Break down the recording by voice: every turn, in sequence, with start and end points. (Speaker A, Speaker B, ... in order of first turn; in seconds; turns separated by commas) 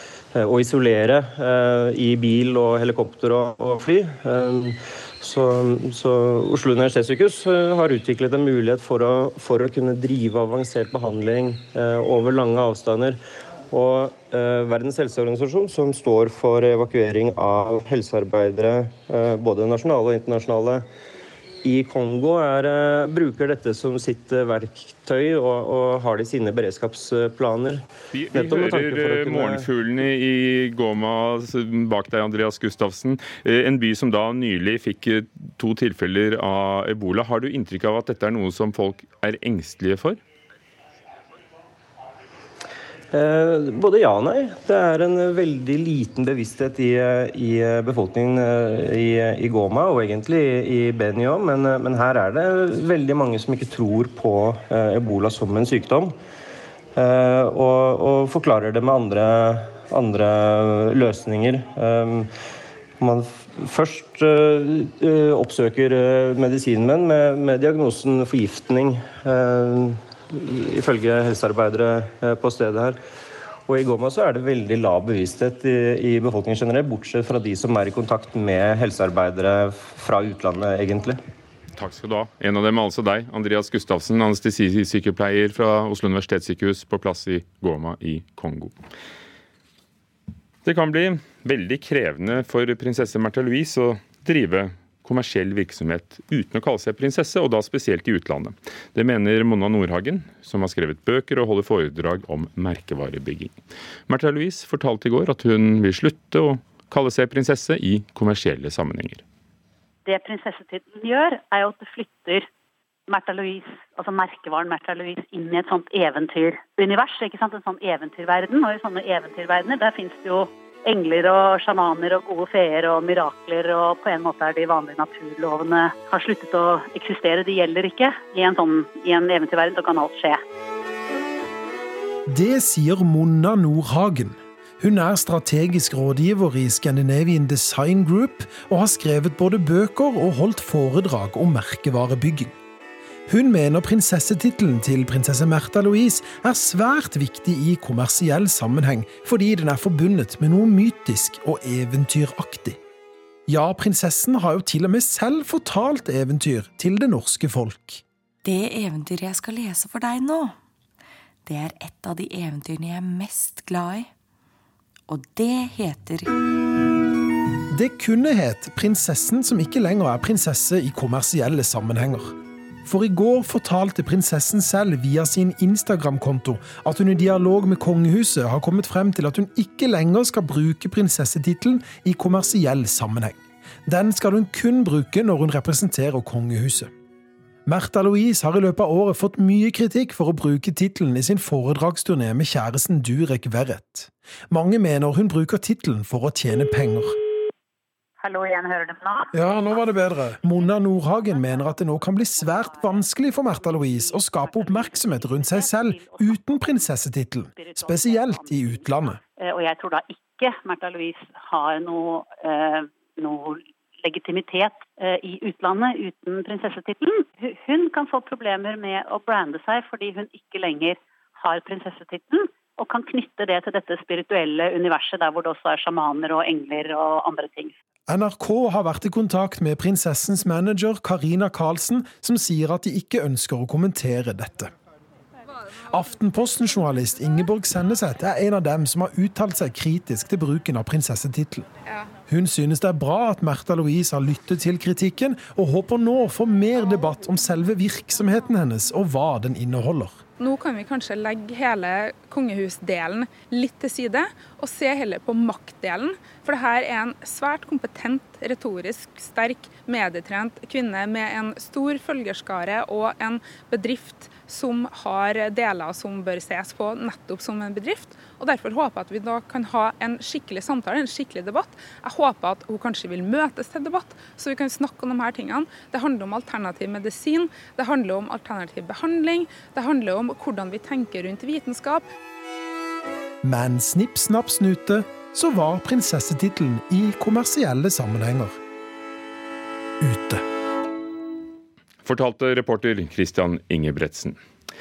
Speaker A: 0.3-13.2, Speaker A: 13.7-20.9, Speaker A: 21.6-29.6, Speaker B: 28.1-40.2, Speaker A: 43.1-56.1, Speaker A: 57.0-62.3, Speaker A: 63.0-73.0, Speaker A: 73.7-81.2, Speaker B: 81.8-88.7, Speaker B: 90.6-103.5, Speaker B: 104.1-109.2, Speaker C: 110.0-112.5, Speaker C: 113.1-130.4, Speaker D: 132.3-142.5, Speaker D: 143.3-152.8, Speaker D: 153.5-158.0, Speaker E: 158.4-160.6, Speaker E: 161.4-164.1, Speaker E: 165.1-166.3, Speaker D: 167.7-186.9, Speaker D: 187.7-197.1, Speaker C: 198.2-199.3, Speaker D: 199.3-209.2, Speaker C: 201.1-206.9, Speaker C: 207.5-227.7, Speaker D: 228.1-234.7, Speaker D: 235.8-241.7, Speaker D: 242.3-250.2, Speaker F: 250.4-282.1, Speaker D: 283.4-288.6, Speaker D: 290.0-290.4, Speaker B: 292.0-294.4